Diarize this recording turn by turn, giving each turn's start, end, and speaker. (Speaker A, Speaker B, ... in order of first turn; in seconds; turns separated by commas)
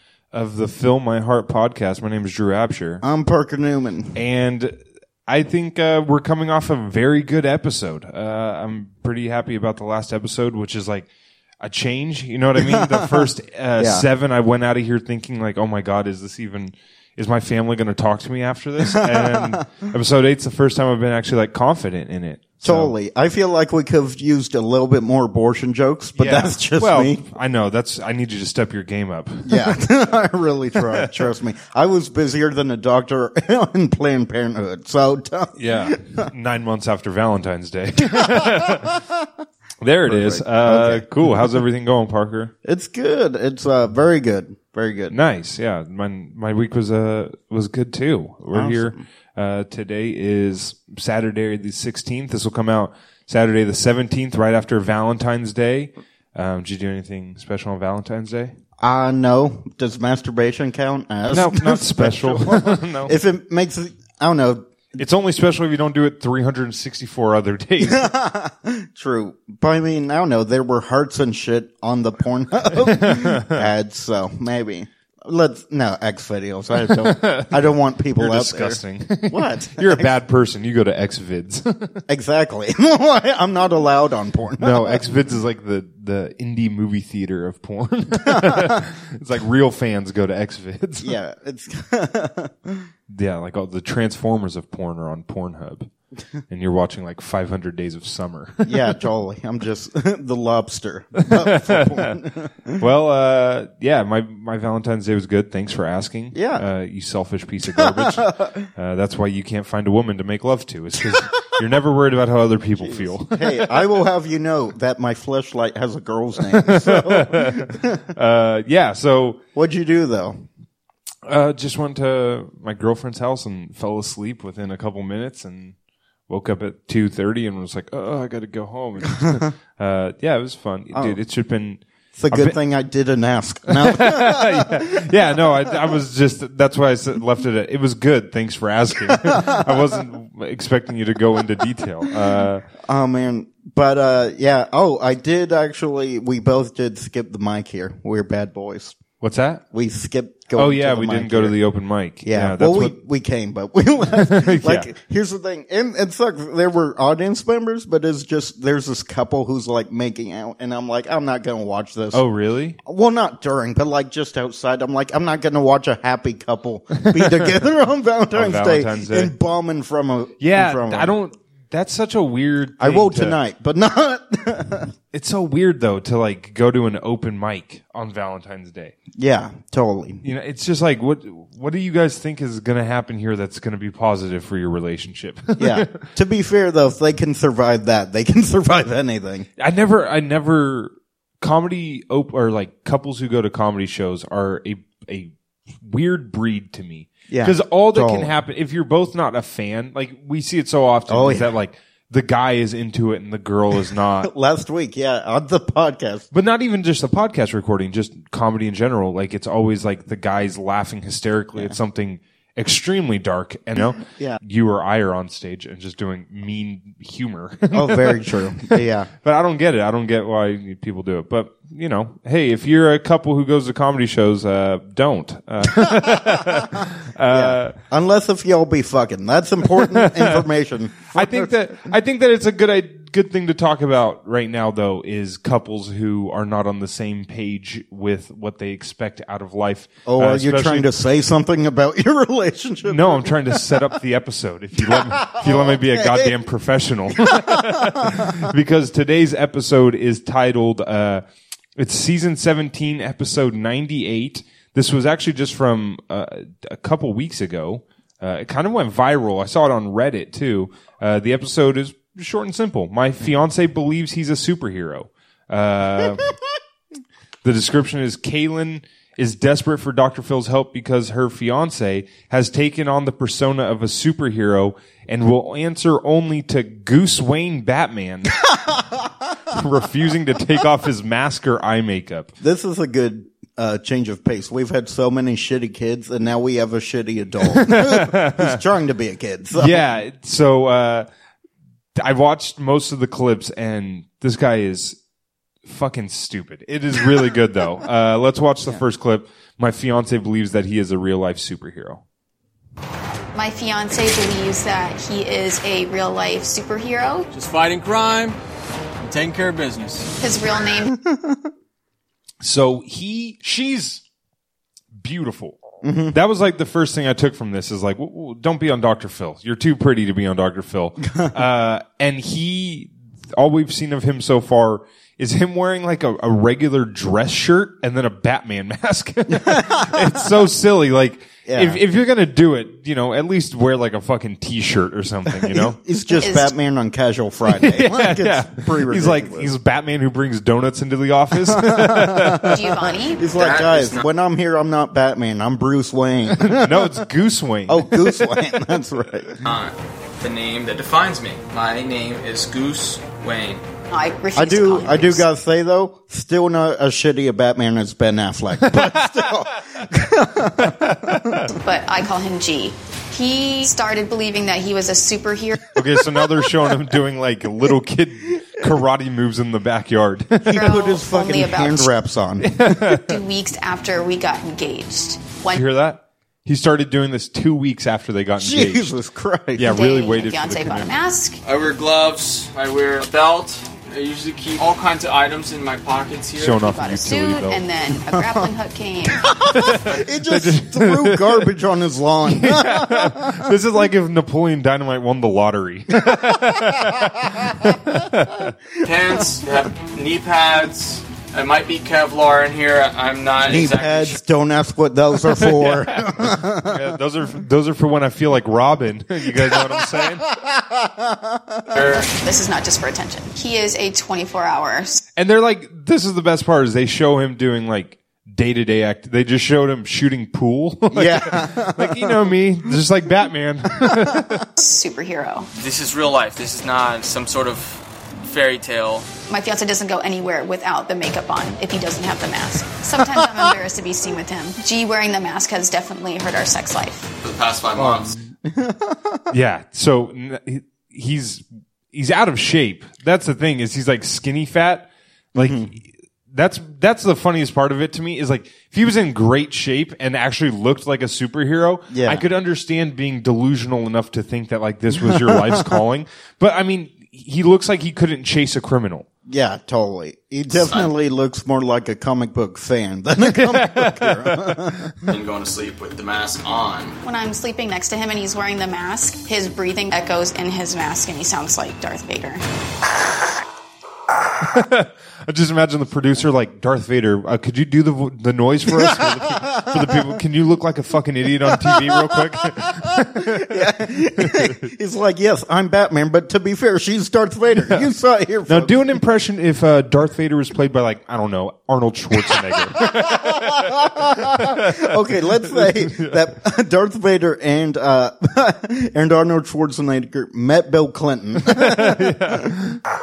Speaker A: 0.3-3.0, Speaker B: 3.0-4.2, Speaker A: 4.2-11.1, Speaker A: 11.6-22.9, Speaker B: 12.6-14.1, Speaker B: 18.9-19.6, Speaker B: 22.6-27.2, Speaker A: 26.2-29.8, Speaker B: 29.4-36.3, Speaker A: 30.9-31.2, Speaker A: 35.6-39.0, Speaker B: 38.2-39.1, Speaker A: 39.8-42.5, Speaker B: 40.1-41.3, Speaker B: 42.6-45.1, Speaker A: 45.1-58.5, Speaker B: 48.5-49.0, Speaker B: 58.8-64.7, Speaker A: 61.3-63.2, Speaker A: 65.0-68.1, Speaker B: 67.8-80.2, Speaker A: 72.8-73.7, Speaker A: 76.9-82.0, Speaker B: 82.1-85.2, Speaker A: 84.6-91.2, Speaker B: 88.3-88.7, Speaker B: 91.0-92.9, Speaker A: 93.1-95.9, Speaker A: 96.5-98.9, Speaker B: 98.7-102.8, Speaker A: 101.2-102.2, Speaker A: 102.8-113.9, Speaker B: 106.3-106.7, Speaker B: 107.8-108.7, Speaker B: 112.8-118.0, Speaker A: 116.5-119.4, Speaker B: 119.5-120.5, Speaker A: 121.3-125.8, Speaker A: 126.3-132.6, Speaker B: 130.9-131.2, Speaker B: 132.2-134.8, Speaker A: 133.7-142.7, Speaker B: 142.9-149.0, Speaker A: 149.2-149.6, Speaker B: 149.7-151.6, Speaker A: 150.6-152.9, Speaker B: 152.2-162.2, Speaker A: 154.1-154.9, Speaker A: 162.1-162.8, Speaker B: 162.8-171.1, Speaker A: 167.0-167.5, Speaker A: 168.3-169.3, Speaker A: 170.4-173.4, Speaker B: 172.8-174.9, Speaker A: 175.1-178.9, Speaker B: 179.2-180.2, Speaker A: 180.2-186.0, Speaker B: 185.6-189.5, Speaker A: 189.6-204.3, Speaker B: 197.3-198.3, Speaker B: 201.1-201.5, Speaker B: 204.2-206.3, Speaker A: 206.3-227.8, Speaker B: 211.5-211.8, Speaker B: 214.1-214.4, Speaker B: 217.7-219.1, Speaker B: 227.3-231.5, Speaker A: 229.8-230.5, Speaker A: 231.1-240.9, Speaker B: 240.1-243.9, Speaker A: 242.8-251.2, Speaker B: 244.8-246.4, Speaker B: 247.2-248.3, Speaker A: 251.8-266.3, Speaker A: 267.4-278.5, Speaker B: 278.7-279.0, Speaker A: 279.5-282.3, Speaker B: 282.4-289.9, Speaker A: 287.5-288.6, Speaker A: 289.6-291.1, Speaker A: 292.0-295.0, Speaker A: 295.6-302.0, Speaker C: 303.3-307.2, Speaker D: 307.3-308.4, Speaker D: 309.0-310.1, Speaker C: 310.2-310.9, Speaker B: 311.1-311.4, Speaker A: 312.4-314.0, Speaker A: 315.0-315.6, Speaker B: 315.8-316.2, Speaker A: 316.1-335.8, Speaker B: 329.3-330.3, Speaker B: 331.5-331.8, Speaker B: 335.3-339.5, Speaker C: 336.2-336.5, Speaker A: 337.5-342.6, Speaker B: 341.4-347.1, Speaker C: 342.5-343.3, Speaker D: 343.3-344.1, Speaker A: 346.4-348.4, Speaker B: 347.7-349.5, Speaker D: 349.4-353.6, Speaker C: 353.9-355.2, Speaker B: 354.4-361.5, Speaker A: 358.7-359.4, Speaker A: 360.6-361.5, Speaker C: 361.5-365.6, Speaker A: 365.8-370.6, Speaker B: 370.4-372.8, Speaker C: 370.5-371.9, Speaker A: 372.4-373.1, Speaker C: 372.9-375.6, Speaker A: 375.5-378.9, Speaker B: 378.4-379.8, Speaker A: 379.6-380.9, Speaker C: 379.7-381.4, Speaker D: 381.4-386.6, Speaker A: 386.4-387.6, Speaker C: 386.6-389.3, Speaker B: 388.1-388.4, Speaker B: 389.2-393.5, Speaker A: 389.5-391.5, Speaker A: 392.3-398.5, Speaker B: 396.1-398.0, Speaker D: 398.8-404.2, Speaker B: 403.4-406.9, Speaker A: 405.3-410.3, Speaker B: 409.3-411.9, Speaker D: 411.7-412.1, Speaker C: 411.9-415.0, Speaker A: 415.2-424.5, Speaker B: 420.9-422.7, Speaker B: 423.8-424.4, Speaker C: 424.6-425.5, Speaker D: 425.6-429.1, Speaker C: 429.3-437.1, Speaker D: 437.2-438.1, Speaker B: 437.8-439.3, Speaker A: 439.3-459.1, Speaker B: 445.4-445.7, Speaker B: 451.9-452.3, Speaker B: 454.9-455.8, Speaker B: 459.3-464.9, Speaker D: 460.5-460.9, Speaker A: 463.3-464.7, Speaker D: 465.1-467.0, Speaker C: 467.0-472.4, Speaker A: 474.4-484.5, Speaker B: 478.7-480.2, Speaker B: 481.5-489.0, Speaker A: 487.6-487.9, Speaker A: 488.5-496.2, Speaker B: 492.9-502.6, Speaker A: 501.5-502.8